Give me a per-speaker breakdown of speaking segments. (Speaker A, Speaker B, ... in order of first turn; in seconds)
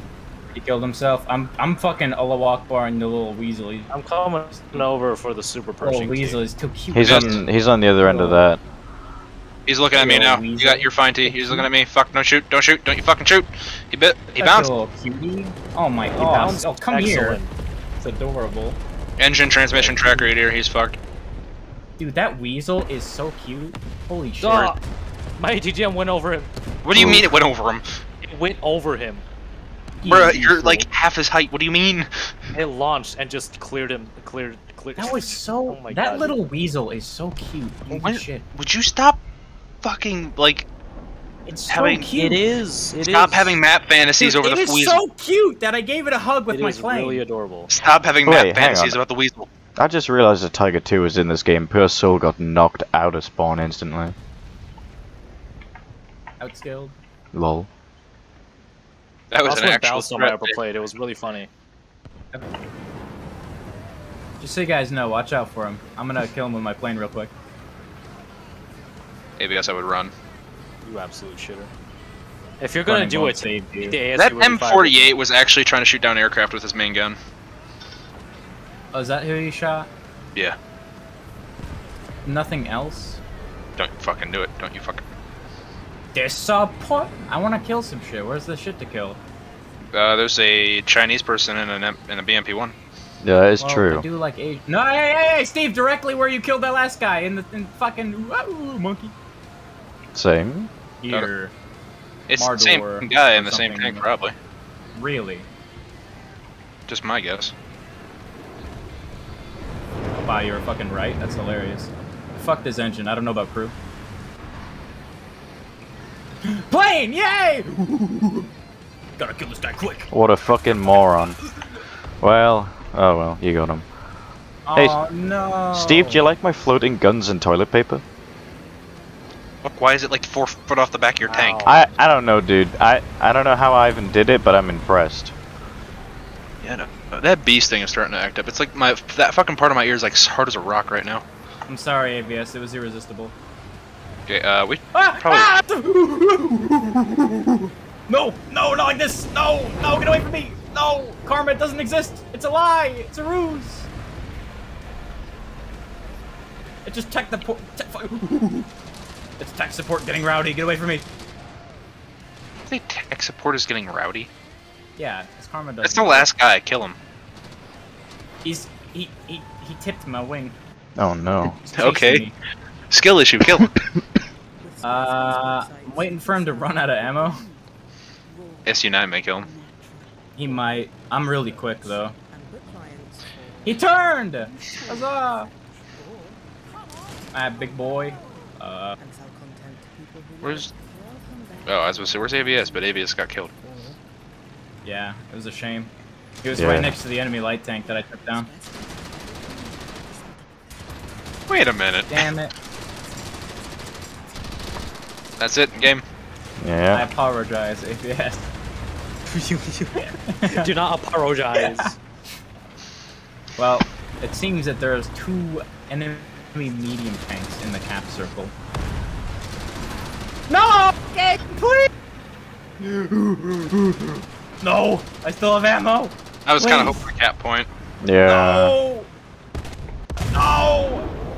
Speaker A: 0.5-3.9, 4.5-4.9, 5.8-7.4, 8.0-8.4, 9.9-11.7, 14.3-17.4, 18.0-18.8, 22.0-24.7, 30.0-30.9, 35.0-38.4, 41.5-42.4, 44.2-47.2, 56.4-56.9, 64.4-67.3, 72.8-74.0, 78.9-79.9, 82.2-83.2, 86.1-89.2, 93.6-99.1, 101.0-101.5, 102.3-104.1, 104.9-105.5, 110.2-113.7, 116.4-118.5, 119.2-120.1, 124.7-126.3, 141.7-143.3, 144.9-153.9, 156.8-158.7, 159.4-161.1, 165.0-166.3, 168.4-170.6, 171.5-172.3, 174.8-177.4, 180.3-182.2, 183.6-185.5, 187.3-189.0, 194.8-198.5, 202.1-202.5, 206.9-208.4, 210.0-210.7, 211.5-211.9, 213.6-218.5, 220.5-221.9, 222.8-227.1, 228.2-229.1, 230.3-231.1
Speaker B: 3.9-6.4, 16.1-17.5, 19.7-20.3, 24.4-24.8, 25.4-26.5, 28.2-29.2, 32.5-36.3, 42.1-43.6, 46.5-47.7, 59.4-61.5, 70.8-71.7, 72.6-75.1, 131.3-131.9, 209.3-212.0
Speaker C: 6.9-8.6, 26.9-27.3, 48.2-49.0, 49.8-54.1, 57.3-57.7, 93.2-94.0, 100.1-100.7, 120.1-121.4, 122.2-123.8, 125.7-128.0, 131.6-135.3, 171.0-171.6, 196.5-196.9, 206.6-207.1, 228.0-228.8
Speaker D: 7.0-7.4, 9.7-14.7, 19.2-21.0, 26.8-27.9, 30.1-32.3, 37.9-39.2, 39.8-40.7, 41.7-42.2, 43.0-45.0, 47.7-49.5, 59.3-60.6, 69.4-70.1, 74.2-77.2, 83.8-85.0, 89.9-92.7, 102.3-104.3, 106.9-107.5, 129.6-131.7, 136.6-141.2, 144.3-145.5, 162.7-164.3, 165.8-167.0, 171.7-172.2, 172.9-173.7, 178.6-179.5, 190.4-190.7, 191.6-193.5, 201.5-202.3, 205.4-206.0, 226.4-227.7